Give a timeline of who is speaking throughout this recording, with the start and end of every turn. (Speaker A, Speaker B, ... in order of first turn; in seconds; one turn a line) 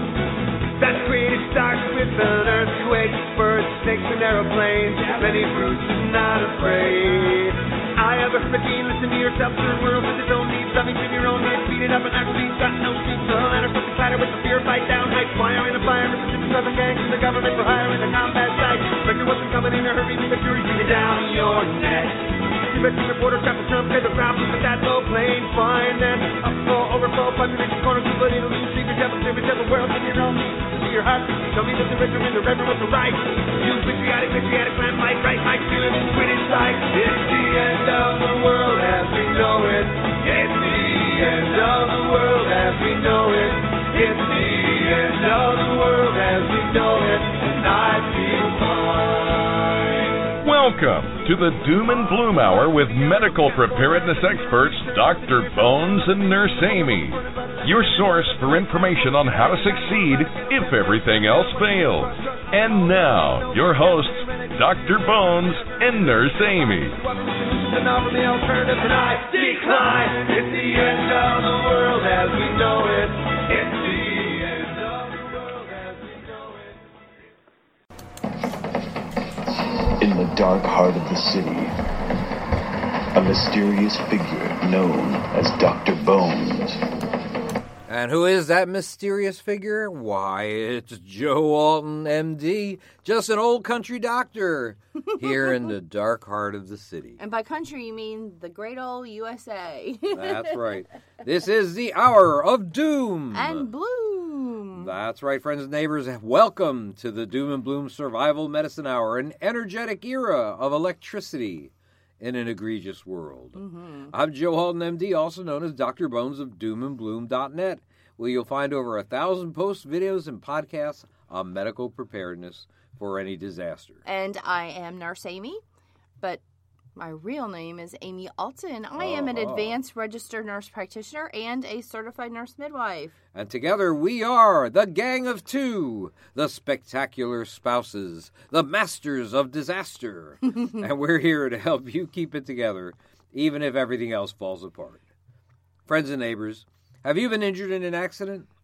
Speaker A: 0.8-49.9
Speaker B: 50.4-67.0
Speaker A: 67.1-76.7
Speaker C: 80.0-81.8
Speaker C: 83.1-86.9
Speaker D: 87.9-97.2
Speaker E: 97.2-100.7
Speaker D: 100.1-103.7
Speaker E: 103.3-104.9
Speaker D: 104.7-113.6
Speaker E: 113.5-114.1
Speaker D: 114.1-124.0
Speaker E: 124.0-125.6
Speaker E: 127.0-133.2
Speaker D: 129.0-129.8
Speaker D: 133.3-145.1
Speaker D: 145.9-148.5